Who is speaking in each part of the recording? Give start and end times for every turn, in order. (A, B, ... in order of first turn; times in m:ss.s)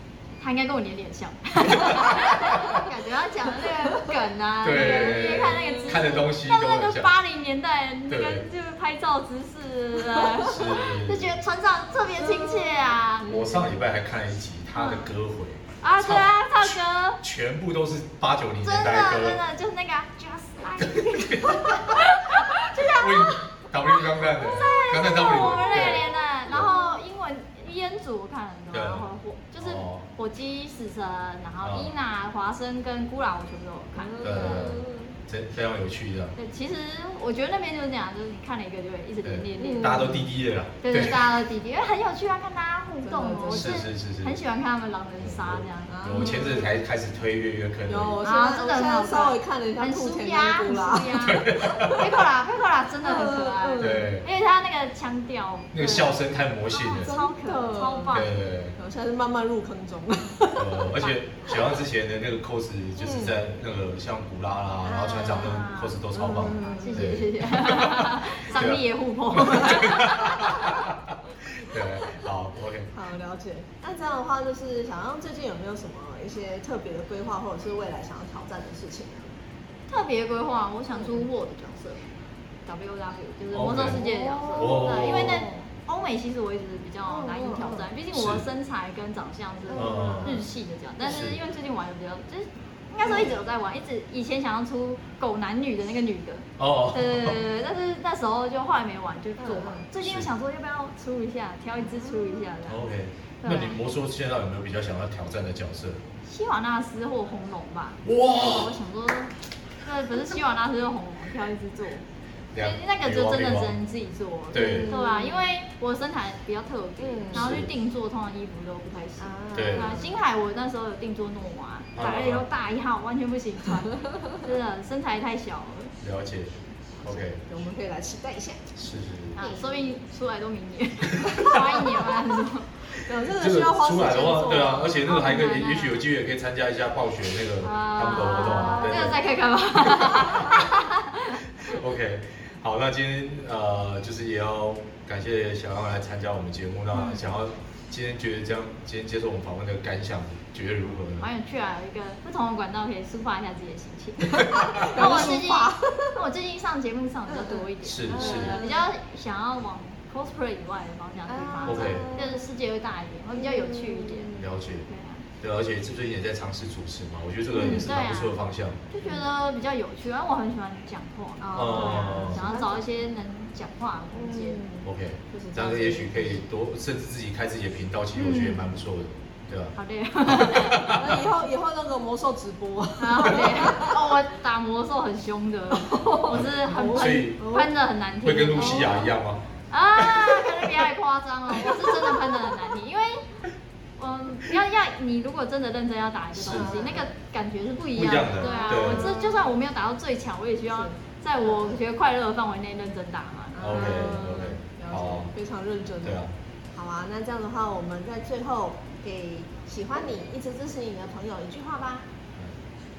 0:00.4-0:13.3 A
0:01.7-0:02.8 B
0:04.6-0:07.1 B
0:05.0-0:06.0 C
0:08.1-0:08.4 B
0:10.4-0:11.3 B
0:12.2-0:13.6 C
0:13.2-0:19.4 B
0:14.8-0:15.1 A
0:15.8-0:17.2 A
0:18.6-0:34.8 A
0:20.8-0:22.1 B
0:22.7-0:26.7 B
0:28.7-0:29.0 B
0:29.6-0:30.1 B
0:31.6-0:31.9 B
0:34.0-0:35.1 C
0:34.2-0:36.3 B
0:36.3-0:40.2 A
0:39.2-0:41.3 B
0:39.6-0:40.3 C
0:40.8-0:46.6 A
0:43.0-0:43.8 C
0:43.5-0:44.4 B
0:45.2-0:48.2 B
0:45.9-0:46.7 C
0:47.9-0:52.1 C
0:48.2-0:56.2 A
0:51.1-0:52.1 B
0:53.0-0:54.1 C
0:53.8-0:54.2 B
0:55.7-0:57.1 B
0:56.7-0:58.3 A
0:57.0-0:58.2 C
0:58.1-0:58.8 B
0:58.8-1:01.7 C
1:00.5-1:12.9 B
1:03.0-1:03.4 C
1:04.9-1:06.0 A
1:06.1-1:07.2 C
1:06.6-1:10.6 A
1:12.9-1:19.3 C
1:19.9-1:22.1 A
1:20.9-1:21.2 C
1:22.6-1:42.9 A
1:23.5-1:25.5 B
1:23.9-1:25.6 C
1:27.1-1:27.9 C
1:28.1-1:28.4 B
1:29.7-1:30.4 C
1:29.7-1:30.5 B
1:31.0-1:31.4 B
1:33.0-1:33.3 C
1:36.6-1:37.4 B
1:39.4-1:39.9 C
1:40.0-1:40.3 B
1:42.0-1:42.5 C
1:42.6-1:46.0 B
1:43.4-1:43.8 A
1:46.2-1:52.0 A
1:48.0-1:48.8 B
1:52.5-1:53.8 B
1:52.6-2:05.9 A
1:54.5-1:55.0 B
1:54.5-1:55.5 C
1:57.0-1:57.6 C
1:57.3-1:57.7 B
1:59.2-2:00.2 C
1:59.5-2:00.0 B
2:02.0-2:02.4 B
2:06.0-2:07.4 B
2:07.0-2:08.7 C
2:08.8-2:09.4 B
2:09.3-2:12.8 A
2:11.2-2:11.6 B
2:12.9-2:15.0 C
2:13.3-2:19.2 B
2:15.0-2:16.0 A
2:17.6-2:21.8 A
2:18.4-2:19.2 C
2:21.6-2:31.3 B
2:26.9-2:27.2 A
2:31.2-2:45.2 A
2:34.4-2:36.1 C
2:37.3-2:38.9 C
2:37.8-2:38.7 B
2:41.3-2:42.4 C
2:41.6-2:42.1 B
2:43.3-2:44.5 C
2:44.4-2:44.8 B
2:45.4-2:48.8 B
2:47.5-2:47.9 C
2:47.5-2:54.6 A
2:51.4-2:52.8 C
2:51.5-2:52.5 B
2:54.1-2:56.4 C
2:54.8-3:01.2 B
2:58.2-2:58.7 A
2:59.7-3:01.1 A
3:00.8-3:04.0 C
3:03.0-3:09.1 A
3:06.3-3:07.5 B
3:06.7-3:07.7 C
3:08.2-3:09.4 B
3:09.7-3:13.3 A
3:14.0-3:24.0 A
3:16.4-3:16.8 B
3:16.4-3:17.0 C
3:17.9-3:19.1 B
3:18.4-3:19.5 C
3:20.7-3:21.8 C
3:23.5-3:26.2 C
3:23.6-3:25.3 B
3:26.0-3:26.3 B
3:26.7-3:32.0 C